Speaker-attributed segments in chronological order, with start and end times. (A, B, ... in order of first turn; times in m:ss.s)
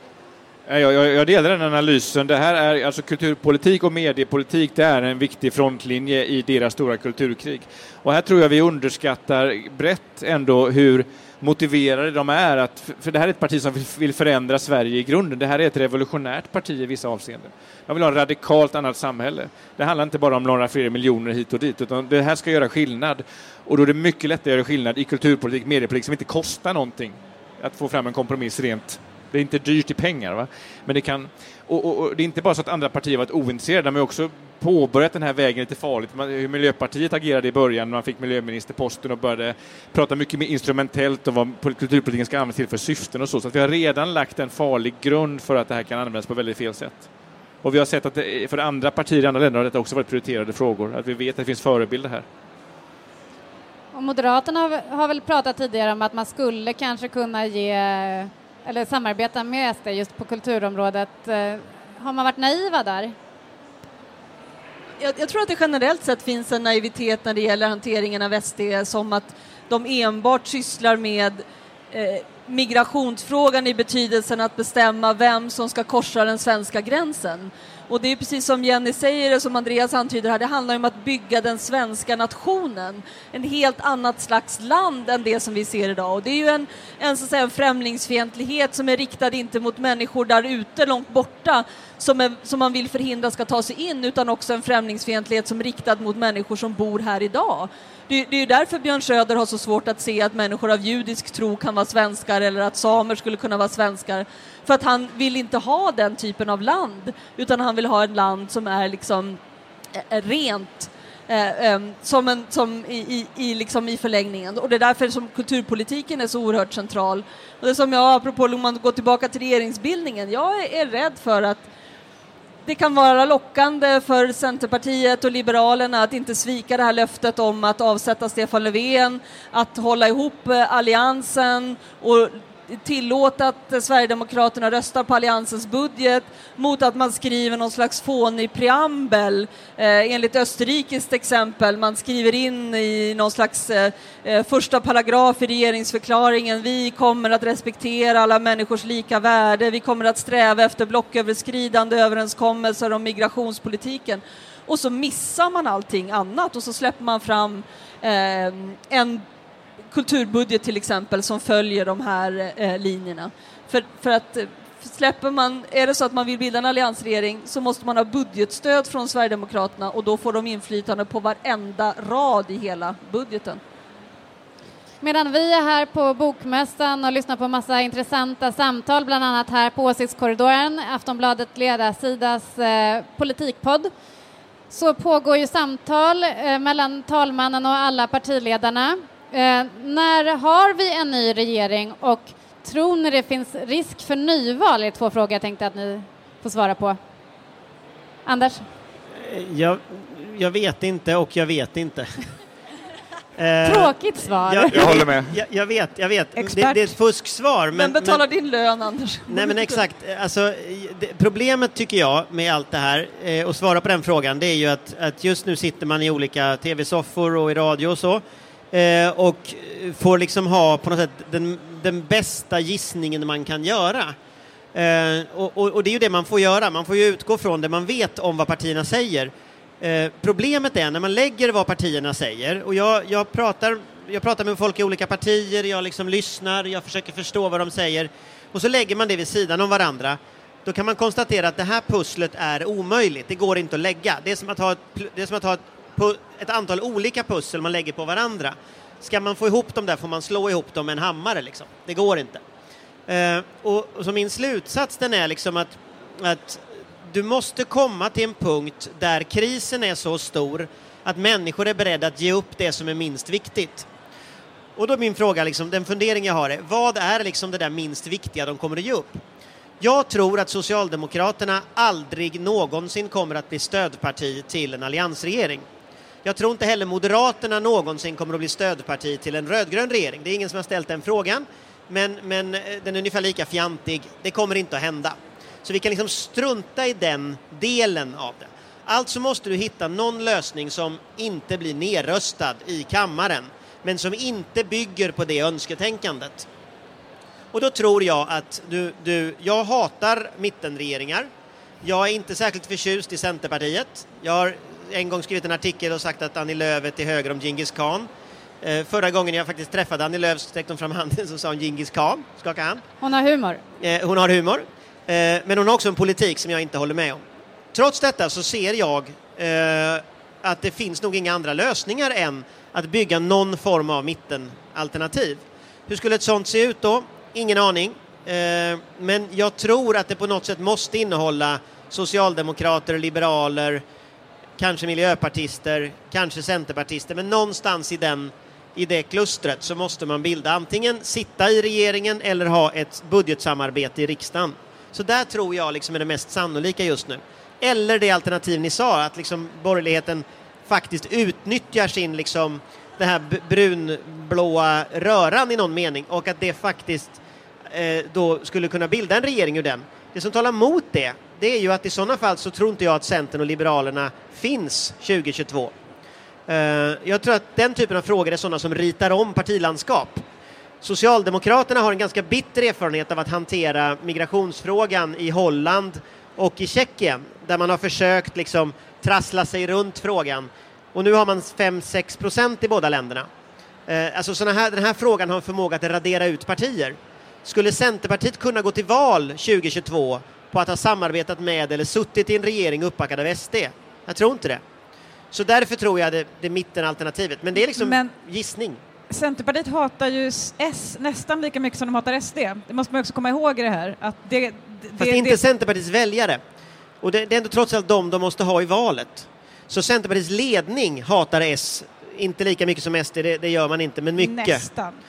0:00.7-0:47.1 A
0:47.6-0:52.2 A
0:53.9-1:03.1 B
1:05.0-1:49.4 C
1:50.0-2:01.6 C
2:02.6-2:39.2 C
2:39.9-2:53.6 C
2:55.0-3:03.9 B
3:04.7-3:17.0 B
3:18.2-3:18.6 B
3:19.2-3:22.1 D
3:23.4-3:28.2 D
3:23.6-3:25.0 B
3:24.7-3:25.3 A
3:26.4-3:26.9 E
3:27.7-3:29.8 C
3:29.3-3:44.2 D
3:44.7-4:12.4 D
4:13.1-4:23.9 D
4:24.8-4:29.2 D
4:29.8-4:35.6 D
4:36.2-4:56.5 D
4:57.5-5:01.3 D
5:01.8-5:08.1 D
5:08.6-5:12.8 D
5:13.0-5:13.6 B
5:13.8-5:17.2 D
5:17.7-5:33.8 D
5:34.6-6:05.7 D
6:06.5-6:10.2 D
6:10.8-6:23.3 D
6:23.9-6:34.6 D
6:35.3-6:38.8 D
6:37.7-6:38.1 E
6:39.1-6:45.4 E
6:45.0-6:46.4 D
6:47.0-6:54.6 D
6:54.2-6:55.0 E